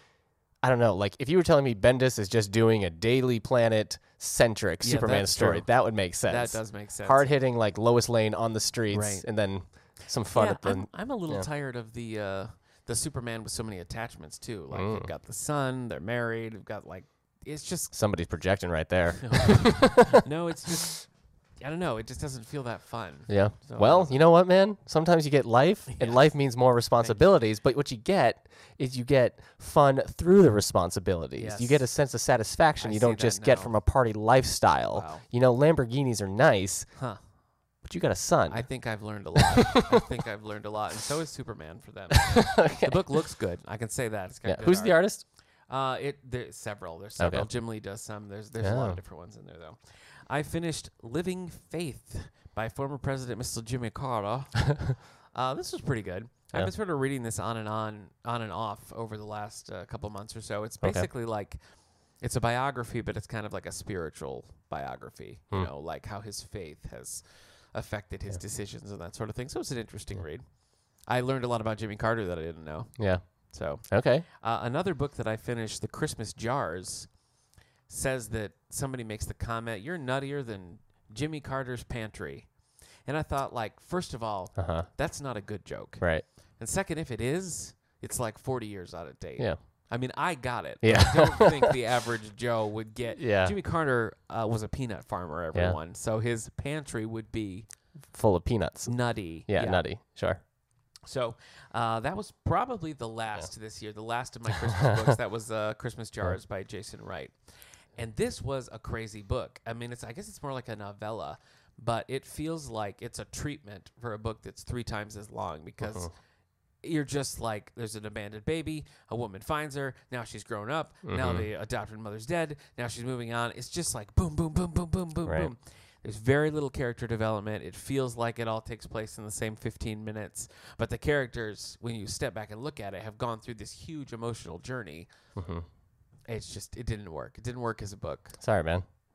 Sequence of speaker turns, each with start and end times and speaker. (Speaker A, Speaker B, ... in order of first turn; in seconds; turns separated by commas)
Speaker A: 0.6-11.5, Speaker B: 4.8-5.7, Speaker B: 6.2-7.3, Speaker B: 8.9-9.2, Speaker B: 10.3-17.9, Speaker A: 14.7-15.1, Speaker A: 17.9-20.2, Speaker B: 19.2-21.1, Speaker B: 21.6-24.2, Speaker A: 23.3-36.9, Speaker B: 25.9-26.2, Speaker B: 31.4-31.9, Speaker B: 32.8-33.7, Speaker B: 34.9-35.2, Speaker A: 37.8-38.7, Speaker B: 38.5-45.0, Speaker A: 39.4-39.8, Speaker A: 42.2-43.0, Speaker A: 44.5-45.2, Speaker B: 45.7-61.6, Speaker A: 47.2-47.5, Speaker A: 48.6-49.0, Speaker A: 60.8-61.1, Speaker B: 62.2-70.5, Speaker B: 71.0-77.1, Speaker A: 73.0-73.3, Speaker A: 73.8-74.2, Speaker B: 77.9-82.5, Speaker B: 83.0-97.7, Speaker A: 84.5-84.9, Speaker A: 86.0-86.2, Speaker A: 90.8-91.8, Speaker A: 93.2-93.5, Speaker A: 98.1-100.4, Speaker B: 98.8-99.8, Speaker B: 101.1-107.3, Speaker A: 104.7-105.0, Speaker B: 108.0-116.1, Speaker A: 115.8-116.1, Speaker B: 116.8-135.1, Speaker A: 121.0-121.5, Speaker A: 125.2-125.5, Speaker A: 135.3-135.7, Speaker B: 136.3-138.4, Speaker A: 138.4-138.8